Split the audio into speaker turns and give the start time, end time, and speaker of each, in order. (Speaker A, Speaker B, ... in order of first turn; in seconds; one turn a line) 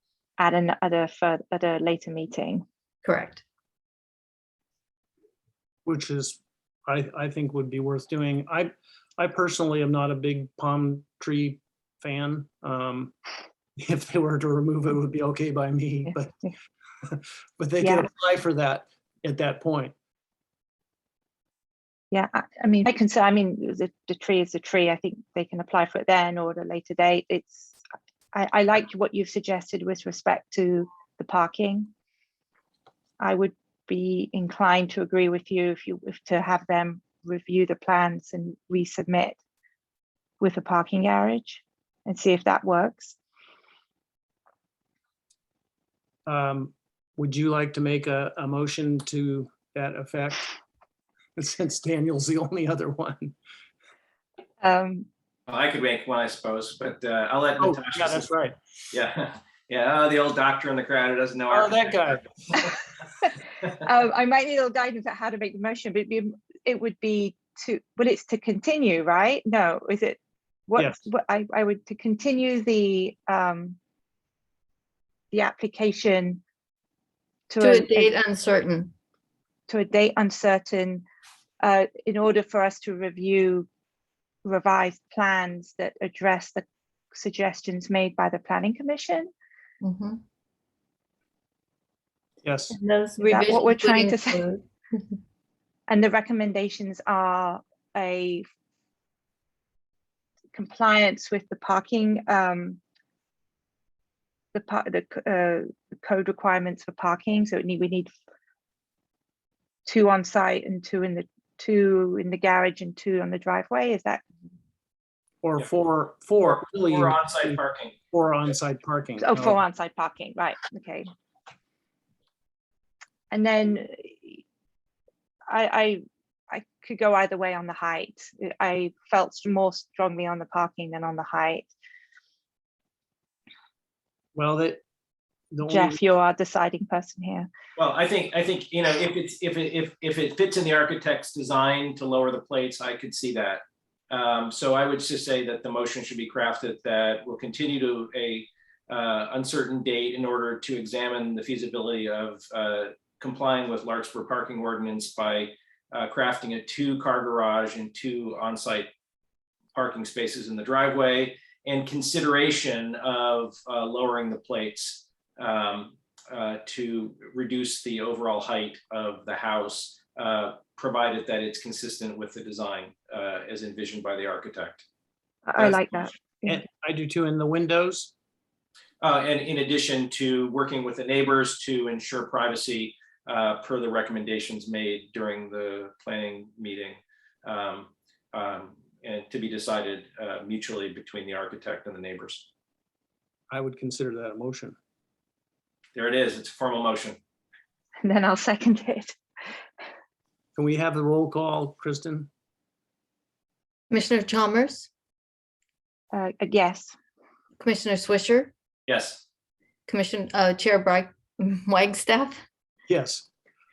Speaker A: 0.4-2.6
Speaker B: 3.0-3.4
Speaker C: 5.8-13.1
Speaker C: 13.8-16.4
Speaker C: 17.0-19.9
Speaker A: 17.8-18.1
Speaker A: 22.1-27.8
Speaker A: 28.3-31.9
Speaker A: 33.2-39.4
Speaker A: 40.4-43.2
Speaker C: 46.2-50.5
Speaker C: 51.4-53.4
Speaker A: 54.6-55.0
Speaker D: 55.5-58.2
Speaker C: 57.6-58.6
Speaker D: 58.9-62.1
Speaker C: 61.5-62.8
Speaker A: 63.7-73.8
Speaker A: 75.3-76.4
Speaker A: 77.5-78.1
Speaker B: 77.6-78.9
Speaker A: 79.7-81.0
Speaker A: 81.6-83.7
Speaker A: 84.4-89.3
Speaker B: 89.8-90.2
Speaker C: 92.4-92.8
Speaker B: 92.7-94.6
Speaker A: 93.2-94.4
Speaker A: 95.9-98.4
Speaker A: 100.5-102.8
Speaker A: 104.5-108.1
Speaker A: 109.8-114.2
Speaker C: 115.4-117.6
Speaker D: 116.9-118.0
Speaker C: 118.1-119.6
Speaker A: 119.2-121.1
Speaker A: 123.3-124.4
Speaker A: 125.5-131.7
Speaker C: 134.3-134.8
Speaker C: 135.5-136.0
Speaker A: 135.7-137.5
Speaker D: 137.8-158.9
Speaker D: 159.7-174.8
Speaker A: 175.5-176.6
Speaker D: 175.6-176.1
Speaker C: 176.5-178.1
Speaker D: 179.0-192.5
Speaker C: 193.5-194.8
Speaker D: 195.9-197.2
Speaker A: 198.0-199.2
Speaker C: 200.5-202.3
Speaker B: 203.9-204.9
Speaker A: 206.1-206.9
Speaker B: 207.6-208.5
Speaker D: 208.9-209.2
Speaker B: 209.9-212.4
Speaker C: 212.9-213.3